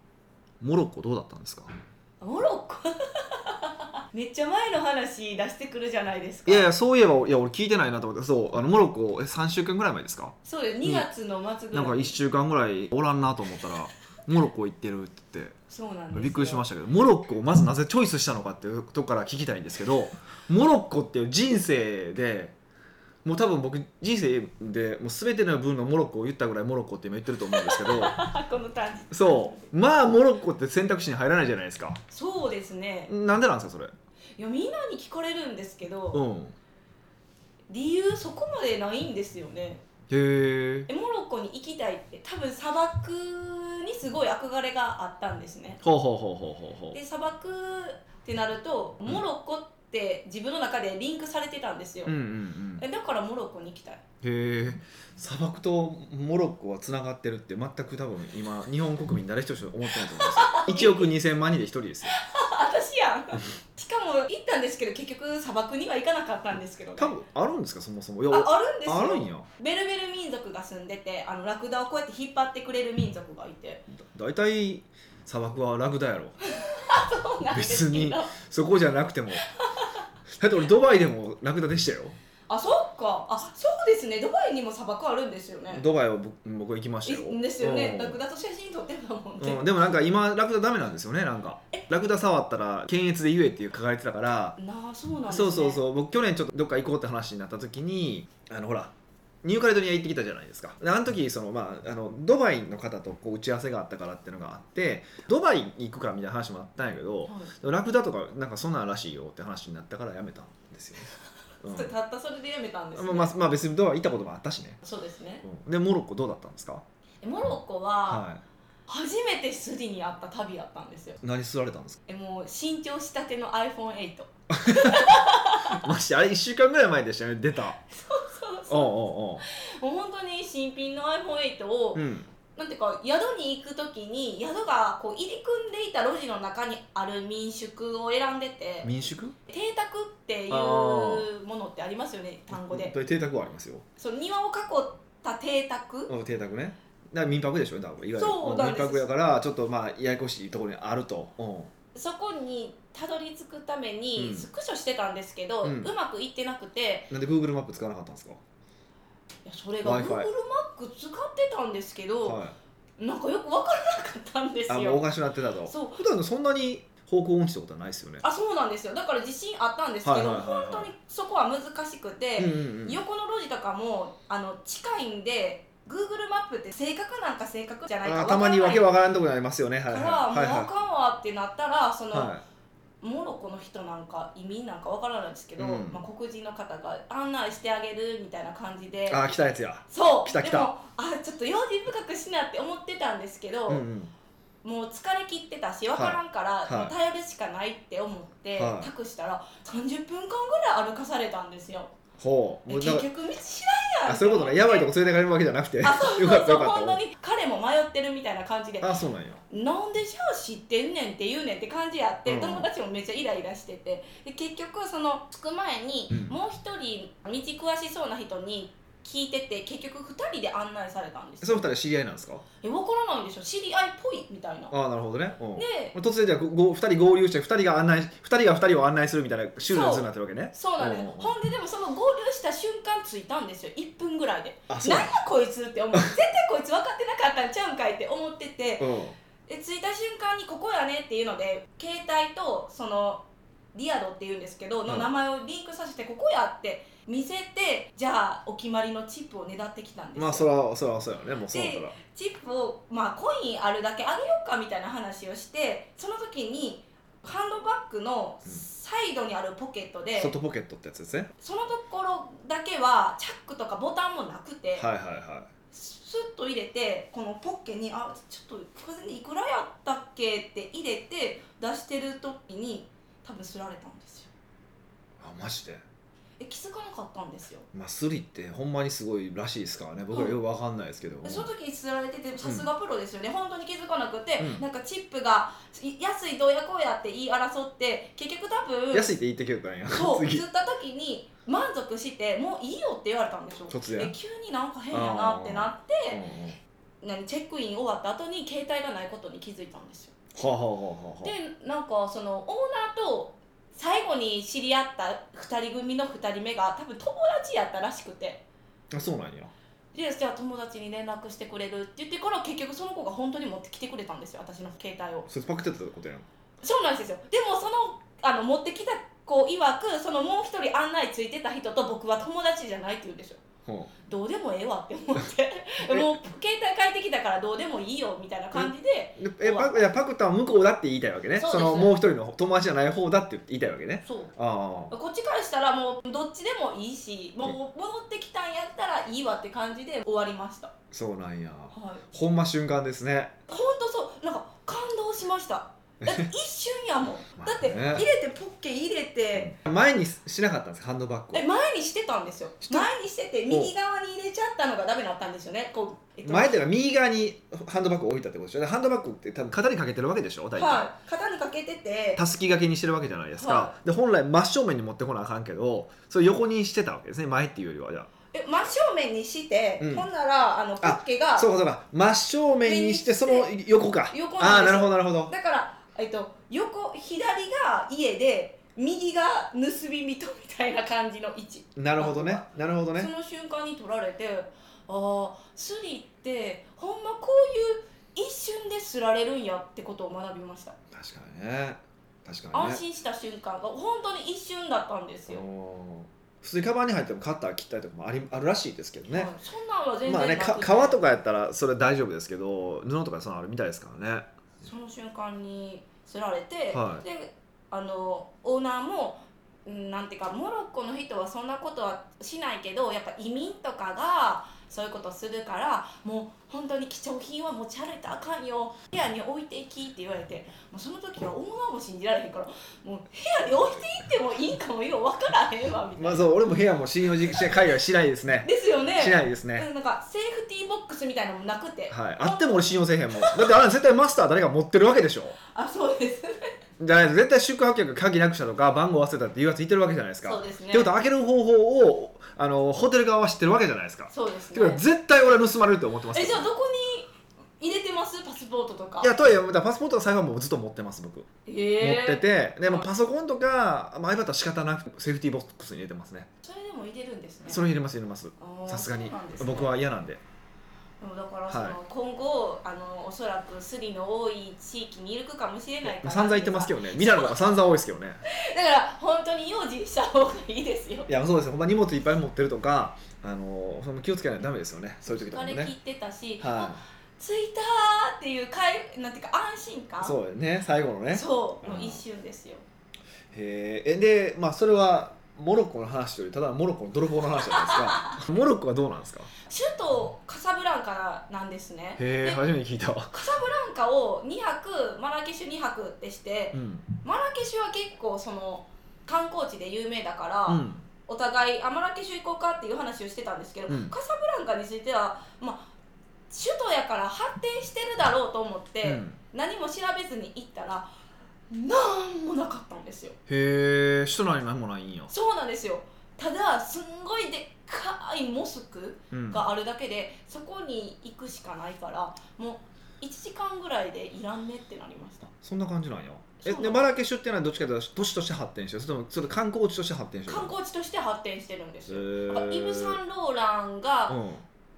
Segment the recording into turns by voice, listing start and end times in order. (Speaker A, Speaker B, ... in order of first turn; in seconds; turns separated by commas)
Speaker A: 0.6-1.7, Speaker B: 2.2-6.7, Speaker A: 6.5-11.1, Speaker B: 10.4-12.1, Speaker A: 11.7-15.6, Speaker B: 15.7-16.6, Speaker A: 16.1-22.5, Speaker A: 23.2-28.2, Speaker B: 27.5-29.7, Speaker A: 29.1-32.0, Speaker B: 32.1-33.1, Speaker A: 33.1-33.9, Speaker B: 34.4-36.2, Speaker A: 36.1-36.5, Speaker B: 37.7-39.8, Speaker A: 40.1-40.9, Speaker B: 40.9-45.8, Speaker A: 45.8-47.0, Speaker B: 46.9-52.1, Speaker A: 52.0-52.8, Speaker B: 52.8-54.0, Speaker A: 54.2-62.2, Speaker B: 59.9-61.1, Speaker B: 62.1-67.1, Speaker A: 67.0-69.5, Speaker B: 68.3-73.8, Speaker A: 73.9-76.3, Speaker B: 76.5-78.3, Speaker A: 77.5-79.5, Speaker B: 79.5-80.0, Speaker A: 80.3-82.2, Speaker B: 82.5-85.8, Speaker A: 85.7-88.2, Speaker B: 87.0-89.7, Speaker A: 89.4-94.6, Speaker B: 94.6-95.8, Speaker A: 95.3-98.9, Speaker A: 99.4-111.9, Speaker B: 107.3-107.5, Speaker B: 111.6-113.3, Speaker A: 112.9-114.8, Speaker B: 114.8-115.4, Speaker A: 115.4-116.8, Speaker B: 117.2-118.2, Speaker A: 118.1-118.4, Speaker B: 118.9-121.2, Speaker A: 121.2-122.0, Speaker B: 122.1-125.9, Speaker A: 124.5-127.8, Speaker B: 127.9-132.0, Speaker A: 128.7-129.4, Speaker A: 131.9-132.3, Speaker B: 132.5-138.9, Speaker A: 138.8-139.3, Speaker B: 139.5-142.9, Speaker A: 140.5-141.3, Speaker A: 142.5-143.8, Speaker B: 144.0-146.1, Speaker A: 146.1-151.7, Speaker B: 148.2-149.1, Speaker B: 151.9-157.1, Speaker A: 154.2-154.5, Speaker A: 155.6-155.9, Speaker A: 157.1-158.4, Speaker B: 159.4-162.4, Speaker A: 159.8-160.3, Speaker A: 162.2-162.6, Speaker B: 163.0-165.0, Speaker A: 164.7-168.2, Speaker B: 165.7-166.0, Speaker B: 168.2-178.9, Speaker A: 170.0-170.9, Speaker A: 172.4-173.0, Speaker A: 178.0-180.7, Speaker B: 179.9-182.3, Speaker A: 182.1-182.4, Speaker B: 183.0-189.4, Speaker A: 185.6-186.0, Speaker A: 189.1-190.7, Speaker B: 189.9-193.9, Speaker A: 193.7-194.1, Speaker B: 194.6-201.9, Speaker A: 195.9-196.9, Speaker A: 198.6-198.9, Speaker A: 202.2-203.1, Speaker B: 202.7-204.9, Speaker A: 204.1-207.0, Speaker B: 205.8-208.9, Speaker A: 208.8-209.4, Speaker B: 209.5-221.7, Speaker A: 212.2-212.7, Speaker A: 216.1-216.4, Speaker A: 221.4-222.4, Speaker B: 222.6-224.7, Speaker A: 224.7-231.3, Speaker B: 225.6-225.9, Speaker B: 229.6-250.5, Speaker A: 234.7-235.2, Speaker A: 238.8-239.2, Speaker A: 250.2-251.9, Speaker B: 251.5-260.3, Speaker A: 260.1-261.3, Speaker B: 261.4-264.9, Speaker A: 264.8-265.5, Speaker B: 265.7-274.3, Speaker A: 275.2-275.8, Speaker B: 276.4-277.7, Speaker A: 277.7-281.5, Speaker B: 280.1-280.4, Speaker B: 281.2-289.1, Speaker A: 282.4-282.6, Speaker A: 284.4-284.6, Speaker A: 288.9-290.4, Speaker B: 289.9-296.2, Speaker A: 293.7-294.1, Speaker A: 294.9-296.6, Speaker B: 297.0-300.1, Speaker A: 300.3-301.3, Speaker B: 301.2-308.4, Speaker A: 308.9-309.5, Speaker B: 309.9-315.3, Speaker A: 315.3-316.2, Speaker B: 316.6-323.4, Speaker A: 323.6-323.9, Speaker B: 324.1-329.9, Speaker A: 325.9-326.1, Speaker A: 328.5-334.9, Speaker B: 331.4-331.9, Speaker B: 334.0-334.3, Speaker B: 334.9-340.7, Speaker A: 340.9-343.3, Speaker B: 341.7-342.0, Speaker B: 343.5-349.5, Speaker A: 346.0-346.3, Speaker A: 347.3-348.1, Speaker A: 349.3-351.4, Speaker B: 351.3-356.6, Speaker A: 356.2-360.9, Speaker B: 360.6-362.2, Speaker A: 362.1-368.1, Speaker B: 363.4-363.7, Speaker B: 368.3-371.5, Speaker A: 369.8-370.1, Speaker A: 370.8-375.3, Speaker B: 372.6-373.5, Speaker B: 374.1-390.8, Speaker A: 381.8-383.1, Speaker A: 390.9-392.8, Speaker B: 392.5-395.4, Speaker A: 395.3-399.3, Speaker B: 399.1-401.0, Speaker A: 400.1-404.3, Speaker B: 404.6-426.3, Speaker A: 406.7-407.0, Speaker A: 425.9-429.6, Speaker B: 428.4-433.6, Speaker A: 431.9-435.4, Speaker B: 435.4-436.5, Speaker A: 436.8-446.5, Speaker B: 440.2-440.9, Speaker B: 444.1-444.8, Speaker B: 446.1-449.1, Speaker A: 449.0-451.3, Speaker B: 451.4-452.9, Speaker A: 451.8-456.3, Speaker B: 456.4-457.6, Speaker A: 457.5-460.2, Speaker B: 458.4-459.7, Speaker B: 461.0-467.3, Speaker A: 461.5-461.8, Speaker A: 465.8-468.2, Speaker B: 468.2-471.1, Speaker A: 471.1-475.7, Speaker B: 475.1-480.1, Speaker A: 476.4-476.8, Speaker A: 480.0-482.0, Speaker B: 481.1-482.6, Speaker A: 483.3-489.3, Speaker B: 487.5-488.2, Speaker B: 489.4-492.4, Speaker A: 492.0-493.2, Speaker B: 493.1-505.7, Speaker A: 496.5-496.9, Speaker A: 500.5-500.9, Speaker A: 503.7-503.9, Speaker B: 506.3-510.9, Speaker A: 508.8-509.2, Speaker B: 511.5-513.1, Speaker A: 513.3-515.1, Speaker B: 515.1-525.2, Speaker A: 519.1-519.5, Speaker A: 525.2-530.5, Speaker B: 526.4-526.8, Speaker B: 530.3-534.2, Speaker A: 531.9-533.0, Speaker A: 534.1-534.4